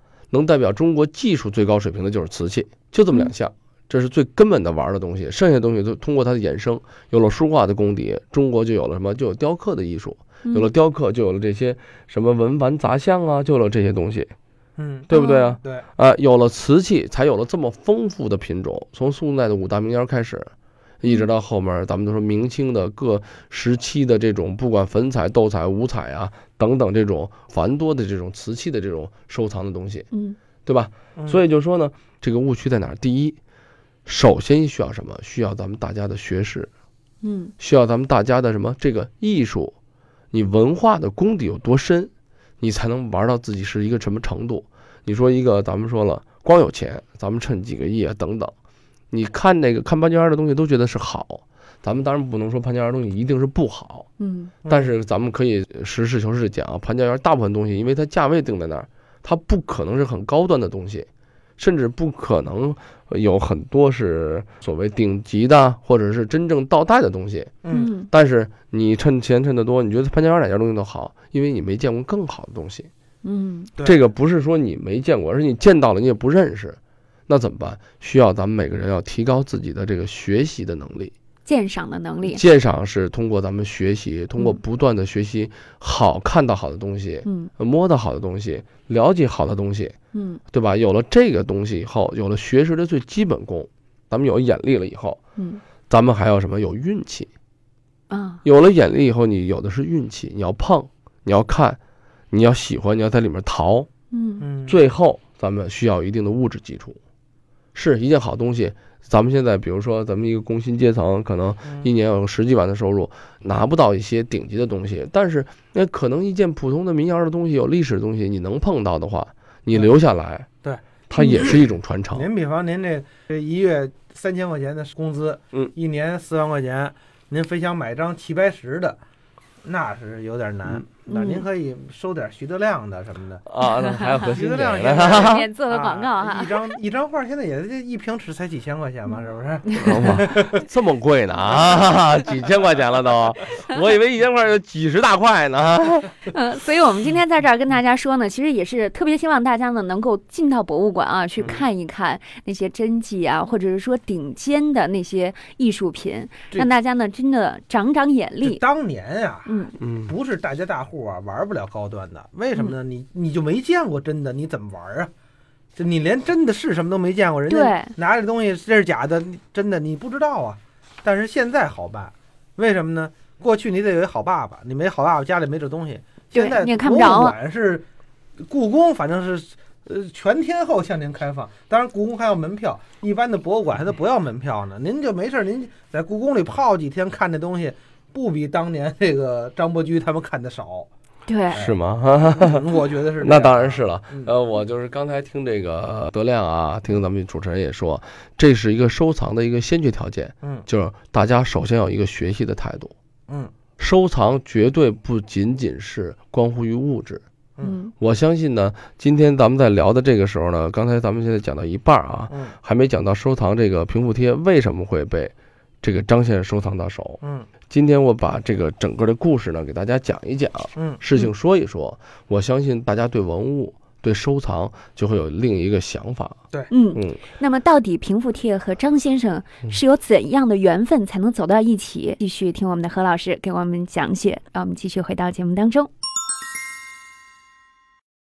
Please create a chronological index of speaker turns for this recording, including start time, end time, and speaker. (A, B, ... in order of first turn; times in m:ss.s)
0:00.3-0:14.3 A
0:10.4-0:10.7 B
0:14.8-0:15.1 C
0:15.1-0:30.1 A
0:15.1-0:15.6 B
0:30.1-0:30.4 B
0:30.6-0:33.4 A
0:34.0-0:36.7 A
0:37.2-0:37.5 B
0:37.6-0:39.7 A
0:40.3-0:48.5 A
0:49.1-0:54.1 A
0:54.2-0:54.5 B
0:54.6-0:54.9 C
0:54.7-1:12.9 A
1:07.6-1:07.9 C
1:07.7-1:08.1 B
1:13.2-1:13.7 B
1:13.8-1:21.1 A
1:21.4-1:22.4 B
1:22.2-1:29.9 A
1:27.2-1:27.5 B
1:30.1-1:30.4 B
1:30.5-1:35.2 A
1:35.4-1:35.6 B
1:35.9-1:37.3 A
1:38.1-1:38.4 B
1:38.4-1:41.8 A
1:42.3-1:43.9 A
1:44.1-1:44.5 B
1:44.4-1:44.8 C
1:44.7-1:47.0 A
1:47.7-2:00.5 A
2:01.1-2:02.3 A
2:02.1-2:09.0 C
2:09.6-2:13.4 C
2:11.1-2:11.4 B
2:13.4-2:15.5 A
2:14.2-2:20.6 C
2:15.2-2:16.7 B
2:19.8-2:26.3 A
2:26.3-2:38.6 B
2:38.4-2:45.1 C
2:39.4-2:39.8 B
2:39.8-2:40.1 A
2:45.8-2:57.8 C
2:47.5-2:47.9 B
2:56.3-2:57.4 B
2:58.5-3:10.9 C
3:11.3-3:11.6 B
3:11.5-3:14.3 C
3:11.5-3:12.6 A
3:13.2-3:22.9 A
3:23.3-3:23.5 C
3:23.8-3:27.2 A
3:27.6-3:27.9 B
3:28.0-3:46.4 A
3:32.3-3:32.5 C
3:37.2-3:37.5 C
3:40.8-3:41.0 C
3:46.7-3:55.9 B
3:46.9-3:47.3 A